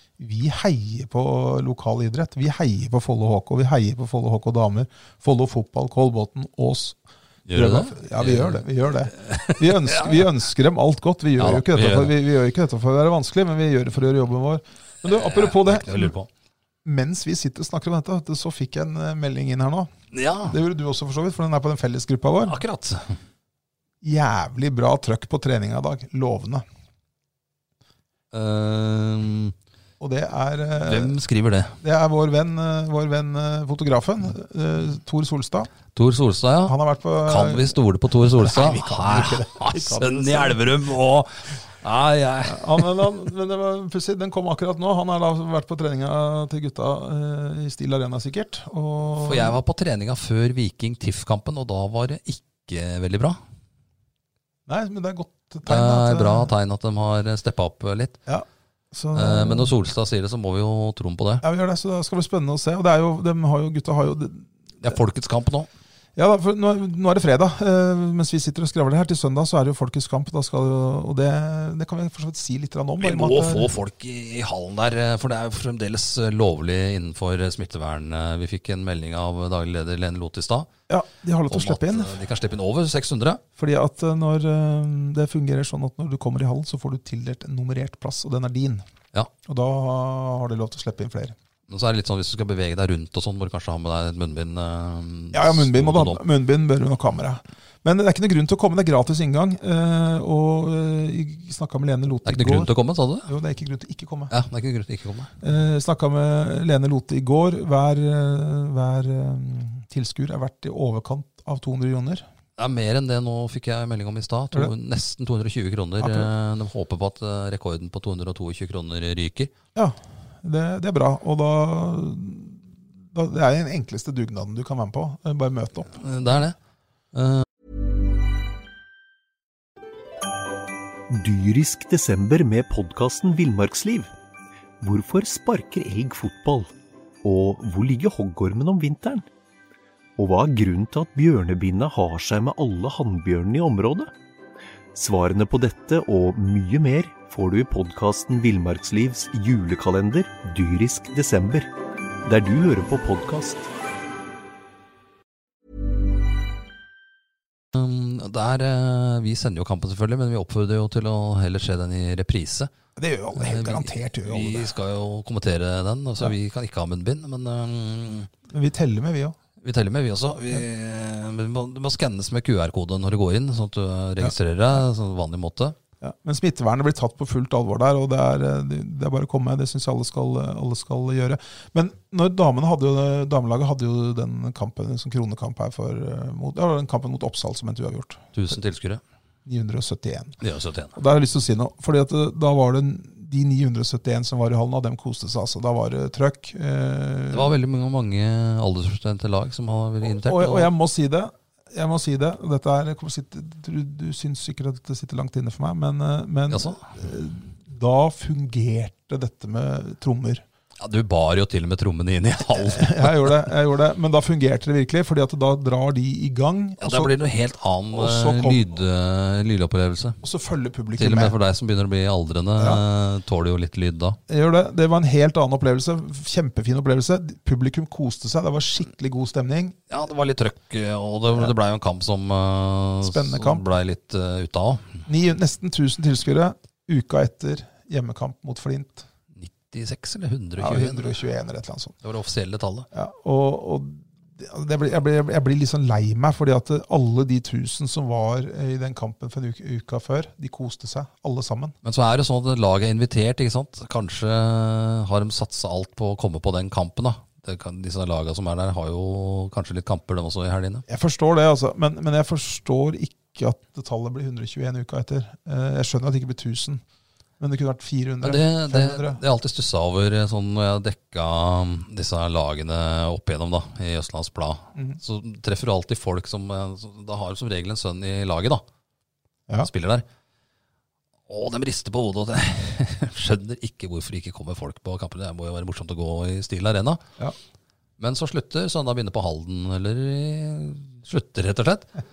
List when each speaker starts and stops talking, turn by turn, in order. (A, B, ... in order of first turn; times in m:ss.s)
0:00.2-0:07.0 A
0:07.5-0:10.2 B
0:07.5-0:16.1 A
0:11.4-0:12.2 B
0:15.0-0:16.3 B
0:16.8-0:19.9 A
0:20.1-0:20.6 B
0:20.5-0:22.6 A
0:22.4-0:23.2 B
0:24.0-0:26.6 A
0:28.3-0:29.6 B
0:30.0-0:31.2 A
0:30.8-0:31.8 B
0:31.8-0:35.7 A
0:35.9-0:42.9 B
0:36.6-0:37.8 A
0:38.3-0:40.6 A
0:42.5-0:49.6 A
0:49.2-0:53.4 B
0:54.7-0:56.5 A
0:55.7-0:58.2 B
0:58.3-0:59.7 A
0:59.1-1:01.4 B
1:01.4-1:04.5 A
1:04.8-1:05.7 B
1:06.2-1:13.7 A
1:13.0-1:20.7 B
1:20.9-1:22.1 A
1:21.5-1:23.4 B
1:23.6-1:28.8 A
1:29.4-1:31.4 A
1:31.7-1:36.2 B
1:35.3-1:42.7 A
1:42.2-1:43.3 B
1:43.3-1:44.3 A
1:44.3-1:45.3 B
1:45.4-1:52.2 A
1:52.6-1:59.5 B
1:56.0-1:56.3 A
1:59.8-2:06.0 A
2:06.0-2:06.6 B
2:07.1-2:07.5 B
2:11.1-2:14.1 C
2:14.8-2:16.7 C
2:17.2-2:19.3 C
2:20.2-2:24.1 C
2:25.0-2:31.7 C
2:32.3-2:33.7 C
2:37.7-2:42.7 B
2:43.0-2:44.7 A
2:43.4-2:48.3 B
2:48.5-2:49.4 A
2:49.6-2:55.8 B
2:56.0-3:08.3 A
3:08.3-3:09.0 B
3:09.5-3:10.4 A
3:10.4-3:10.9 B
3:10.9-3:17.5 A
3:17.3-3:20.7 B
3:20.0-3:30.4 A
3:26.5-3:26.8 B
3:30.8-3:33.4 B
3:32.5-3:37.1 A
3:36.8-3:40.2 B
3:37.9-3:38.7 A
3:40.2-3:41.4 A
3:41.0-3:44.2 B
3:44.3-3:49.8 A
3:49.9-3:55.0 B
3:53.0-3:53.6 A
3:55.1-3:59.1 A
3:59.4-4:01.2 B
4:00.6-4:02.0 A
4:02.0-4:02.9 B
4:02.9-4:11.8 A
4:11.8-4:20.8 B
4:20.9-4:26.8 A
4:27.4-4:29.2 A
4:28.2-4:38.6 B
4:39.6-4:40.1 B
4:41.3-4:47.0 B
4:48.0-4:51.9 B